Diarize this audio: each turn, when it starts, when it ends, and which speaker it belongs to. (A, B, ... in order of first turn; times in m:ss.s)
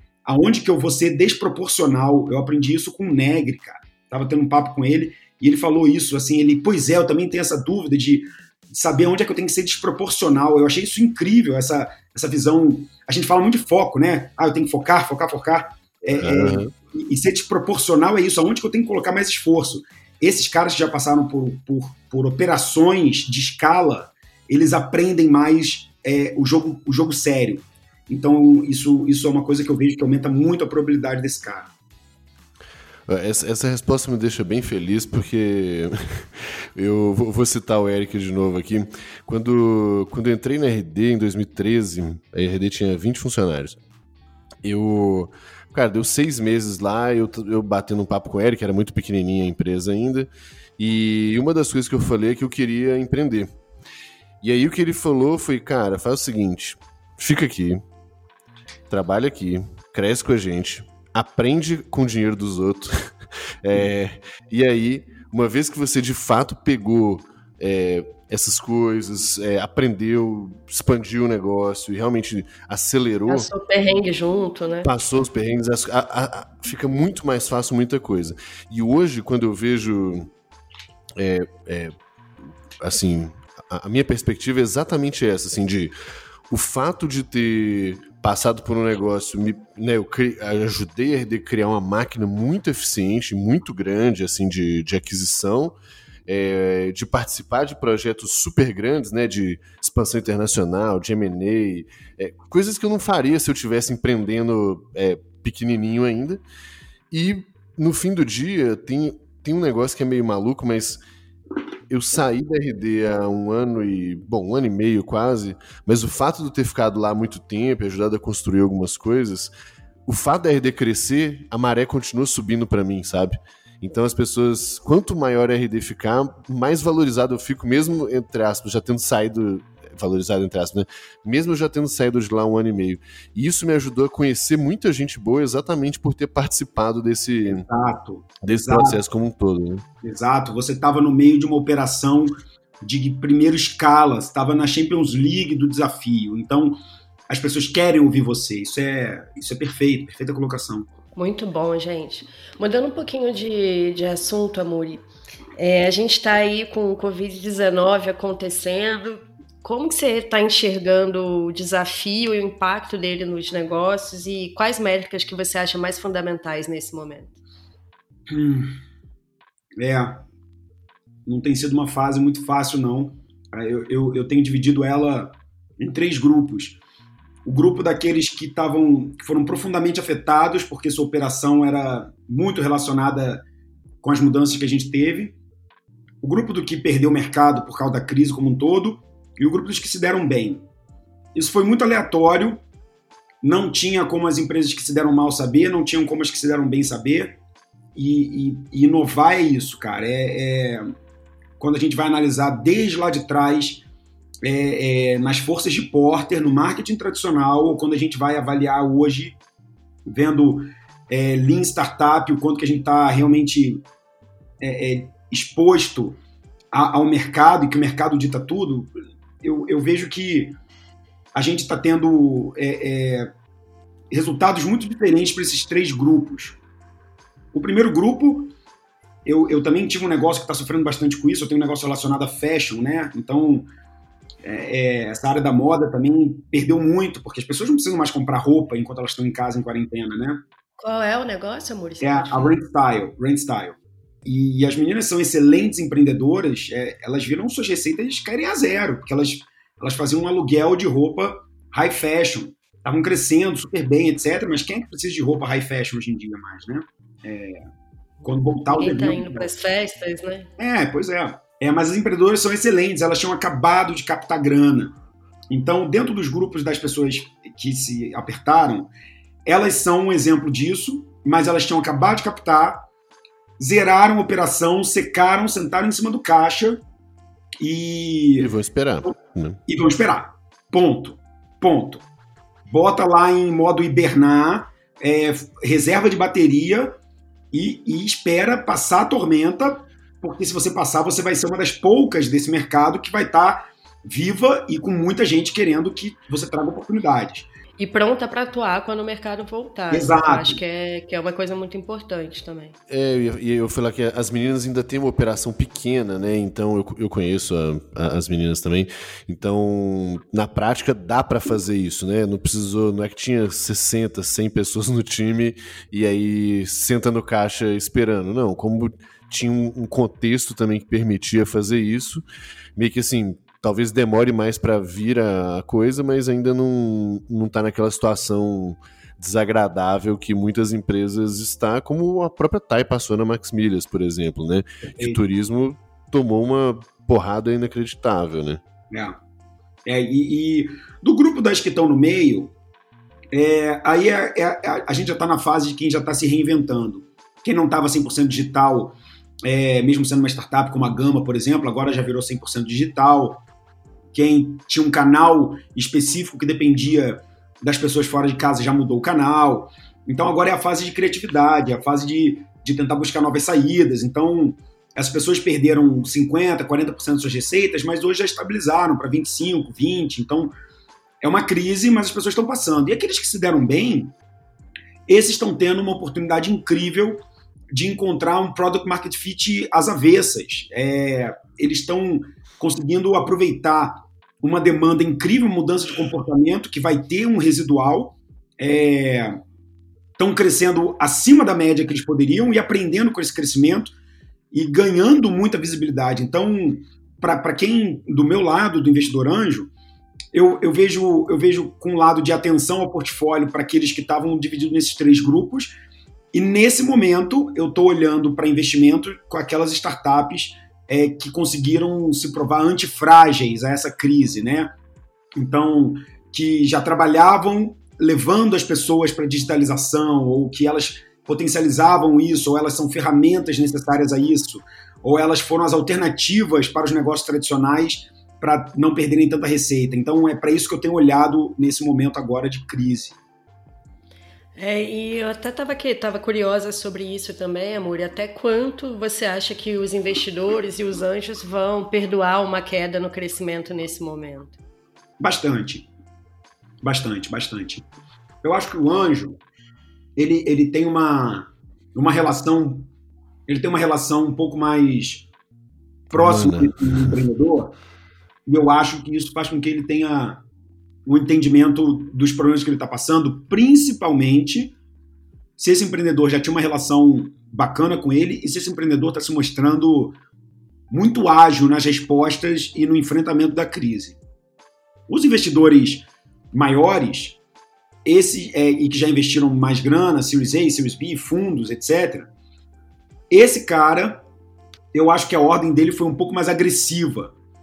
0:00.2-0:31.7 A
0:16.1-0:16.7 B
0:33.1-0:43.8 B
0:44.6-0:53.5 B
0:54.4-0:57.8 B
0:58.9-1:03.1 B
1:03.6-1:13.5 B
1:13.3-1:14.9 C
1:14.8-1:20.3 B
1:21.2-1:21.9 B
1:22.8-1:25.9 B
1:26.5-1:35.7 B
1:36.3-1:46.4 B
1:47.1-1:51.0 B
1:51.9-1:59.5 B
2:00.0-2:17.6 B
2:17.4-2:19.0 A
2:18.4-2:19.8 B
2:20.0-2:26.8 A
2:27.3-2:30.9 A
2:31.1-2:35.0 C
2:35.6-2:47.4 C
2:48.3-2:48.8 A
2:49.8-2:50.2 A
2:51.2-2:56.8 A
2:57.4-3:03.4 A
3:04.0-3:05.4 A
3:06.2-3:10.6 A
3:11.3-3:12.6 A
3:13.4-3:17.4 A
3:17.9-3:20.8 A
3:21.6-3:23.8 A
3:24.4-3:29.4 A
3:30.0-3:33.8 A
3:34.6-3:36.2 A
3:36.7-3:40.6 A
3:41.3-3:43.3 A
3:44.1-3:46.6 A
3:47.5-3:48.5 A
3:49.2-3:53.7 A
3:54.4-4:00.4 A
4:00.8-4:02.6 C
4:02.0-4:17.6 A
4:18.2-4:19.5 A
4:18.7-4:20.5 C
4:20.6-4:24.9 A
4:25.5-4:28.9 A
4:29.4-4:32.8 A
4:33.6-4:36.8 A
4:37.6-4:38.5 A
4:38.4-4:39.6 B
4:39.7-4:42.0 A
4:42.7-4:46.9 A
4:47.5-4:57.5 A
4:57.8-5:02.8 C
4:59.9-5:00.6 A
5:02.9-5:22.2 B
5:22.8-5:38.6 B
5:38.9-5:39.2 A
5:39.8-5:42.5 A
5:43.3-5:53.4 A
5:54.1-6:10.5 A
6:11.2-6:14.1 A
6:15.1-6:29.4 A
6:30.2-6:33.9 A
6:34.5-6:39.7 A
6:40.3-6:45.7 A
6:46.3-6:54.7 A
6:55.4-7:13.2 A
7:14.6-7:24.6 C
7:25.2-7:25.9 A
7:26.8-7:27.8 A
7:28.4-7:29.4 A
7:30.2-7:32.9 A
7:33.5-7:35.2 A
7:36.1-7:37.7 A
7:36.1-7:37.2 B
7:38.5-7:40.4 A
7:41.0-7:44.7 A
7:45.6-7:50.2 A
7:50.9-7:54.2 A
7:55.1-7:57.4 A
7:58.0-8:02.3 A
8:03.3-8:04.2 A
8:04.9-8:07.3 A